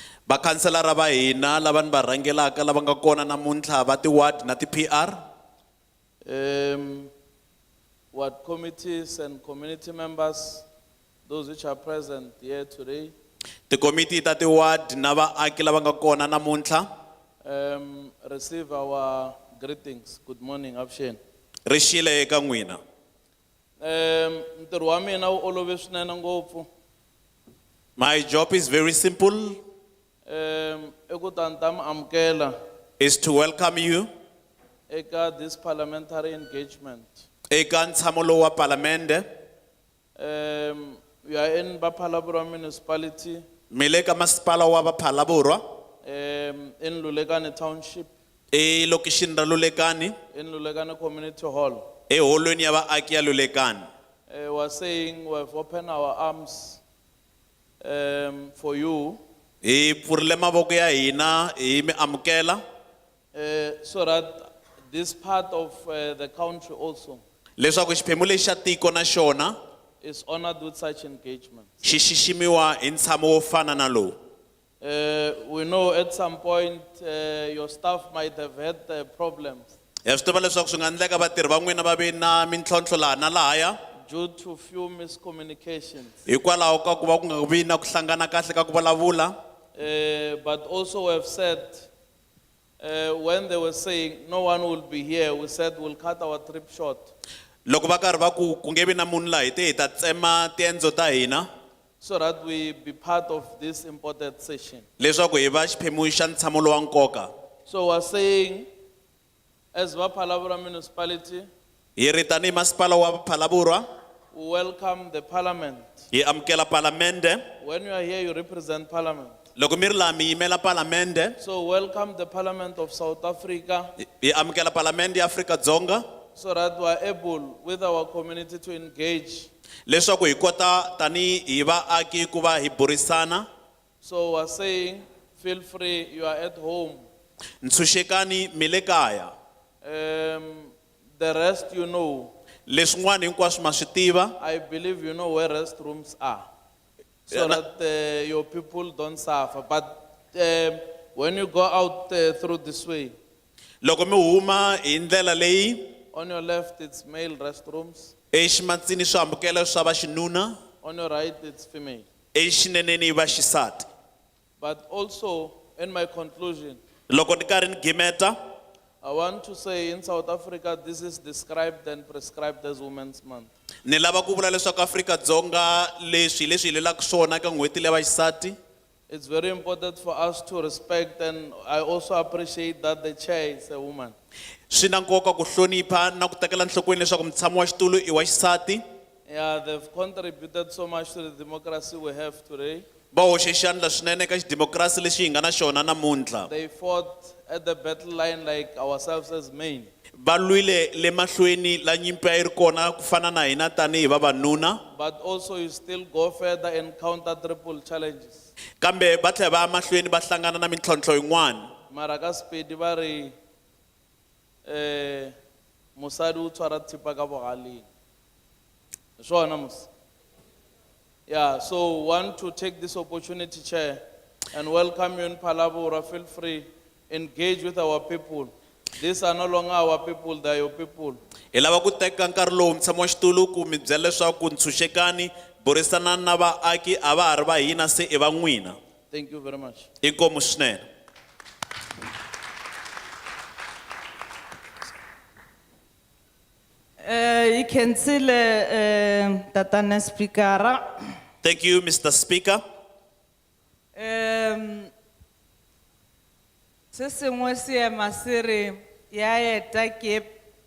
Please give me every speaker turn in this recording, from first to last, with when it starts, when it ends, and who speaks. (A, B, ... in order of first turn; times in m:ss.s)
0:00.3-0:05.1 A
0:06.2-0:07.1 B
0:08.1-0:10.6 B
0:11.2-0:13.1 B
0:13.7-0:16.8 A
0:17.4-0:21.2 B
0:21.6-0:22.8 A
0:23.8-0:26.7 B
0:28.0-0:29.6 A
0:30.2-0:32.5 B
0:33.0-0:34.1 A
0:34.9-0:37.2 B
0:37.5-0:39.2 A
0:40.2-0:43.4 B
0:43.7-0:45.6 A
0:46.0-0:48.1 B
0:48.5-0:50.1 A
0:50.3-0:51.8 B
0:52.1-0:53.8 A
0:54.3-0:56.8 B
0:57.8-0:59.2 B
0:59.6-1:02.6 A
1:03.3-1:07.2 B
1:07.6-1:09.5 A
1:10.0-1:11.8 B
1:11.8-1:14.1 A
1:14.8-1:19.7 B
1:20.0-1:23.8 A
1:24.1-1:26.2 B
1:26.3-1:29.3 A
1:29.8-1:31.9 B
1:32.8-1:37.1 B
1:37.7-1:41.4 A
1:42.0-1:44.8 B
1:45.0-1:47.3 A
1:47.7-1:48.7 B
1:49.7-1:51.5 B
1:52.0-1:53.8 A
1:54.3-1:56.0 B
1:56.1-1:57.4 A
1:57.6-1:59.4 B
1:59.6-2:01.4 A
2:01.4-2:03.9 B
2:04.0-2:06.0 A
2:06.3-2:09.5 B
2:09.9-2:13.4 A
2:14.0-2:17.0 B
2:17.6-2:19.3 A
2:19.8-2:22.3 B
2:22.7-2:24.3 A
2:24.4-2:26.4 B
2:27.3-2:33.1 B
2:27.3-2:27.6 A
2:33.8-2:35.8 A
2:36.1-2:38.1 B
2:38.3-2:40.6 A
2:40.8-2:42.0 B
2:42.3-2:43.8 A
2:44.6-2:46.8 B
2:47.1-2:48.3 A
2:49.0-2:53.5 B
2:53.8-2:58.6 A
2:59.1-3:04.1 B
3:04.7-3:08.8 A
3:09.3-3:12.8 B
3:13.1-3:16.5 A
3:16.5-3:19.9 B
3:20.2-3:24.8 A
3:24.9-3:28.5 B
3:28.8-3:31.7 A
3:31.9-3:33.3 B
3:34.6-3:35.3 B
3:36.0-3:37.8 B
3:39.2-3:39.9 B
3:41.3-3:44.0 B
3:44.5-3:51.2 B
3:51.5-3:58.8 A
3:59.1-3:59.9 B
4:00.0-4:00.8 A
4:07.0-4:10.9 C
4:11.4-4:12.6 A
4:13.9-4:14.9 C
4:16.9-4:20.4 C